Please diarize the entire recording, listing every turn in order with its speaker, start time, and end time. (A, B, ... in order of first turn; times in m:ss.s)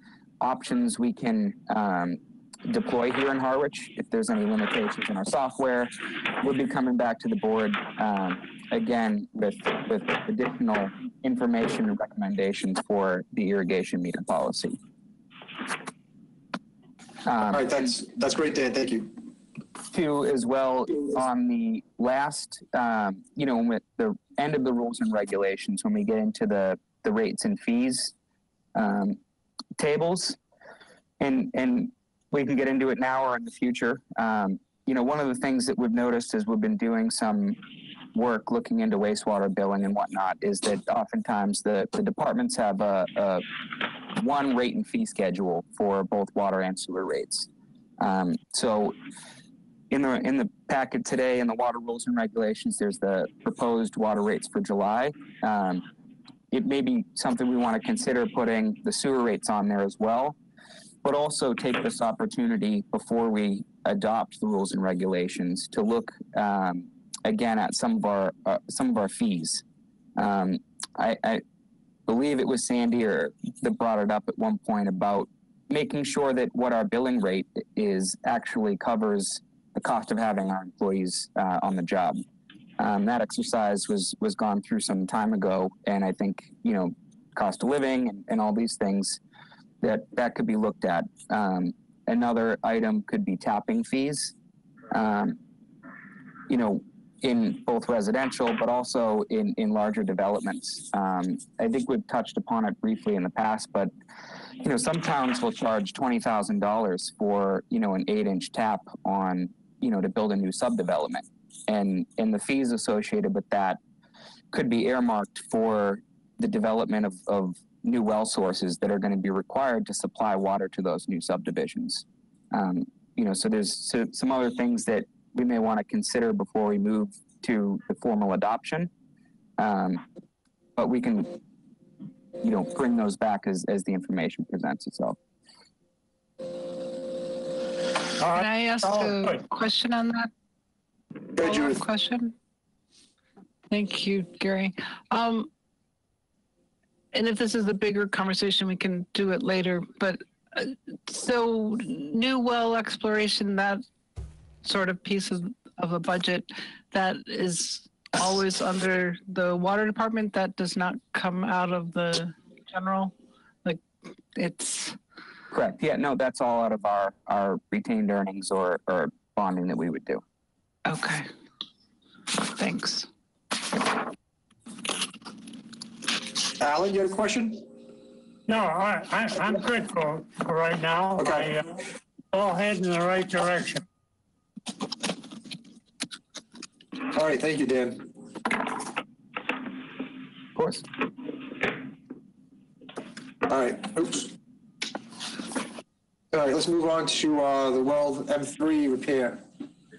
0:00.4-0:14.8 A
0:17.2-0:17.7 A
0:17.5-0:19.1 B
0:19.9-0:28.1 A
0:28.8-0:29.2 A
0:29.8-0:30.4 A
0:31.2-0:37.6 A
0:38.1-0:43.4 A
0:44.1-0:47.5 A
0:48.0-0:49.0 A
0:49.9-0:55.8 A
0:56.5-1:00.4 A
1:01.0-1:09.6 A
1:10.2-1:11.4 A
1:12.1-1:22.2 A
1:22.8-1:29.2 A
1:29.8-1:34.3 A
1:34.9-1:35.4 A
1:36.5-1:43.9 A
1:44.6-1:53.8 A
1:54.5-2:08.9 A
2:09.6-2:10.0 A
2:10.8-2:11.4 A
2:12.4-2:15.2 A
2:18.2-2:19.4 C
2:18.3-2:20.3 D
2:21.4-2:22.3 D
2:21.4-2:21.8 B
2:23.7-2:25.5 D
2:27.1-2:33.8 D
2:34.6-2:43.1 D
2:44.4-2:45.0 D
2:45.5-2:50.2 A
2:50.9-2:51.3 D
2:52.4-2:53.1 D
2:56.6-2:57.6 B
2:58.5-3:01.8 C
3:01.2-3:01.5 B
3:02.3-3:03.8 C
3:07.1-3:08.1 B
3:10.6-3:10.9 A
3:13.5-3:14.3 B
3:16.3-3:19.4 B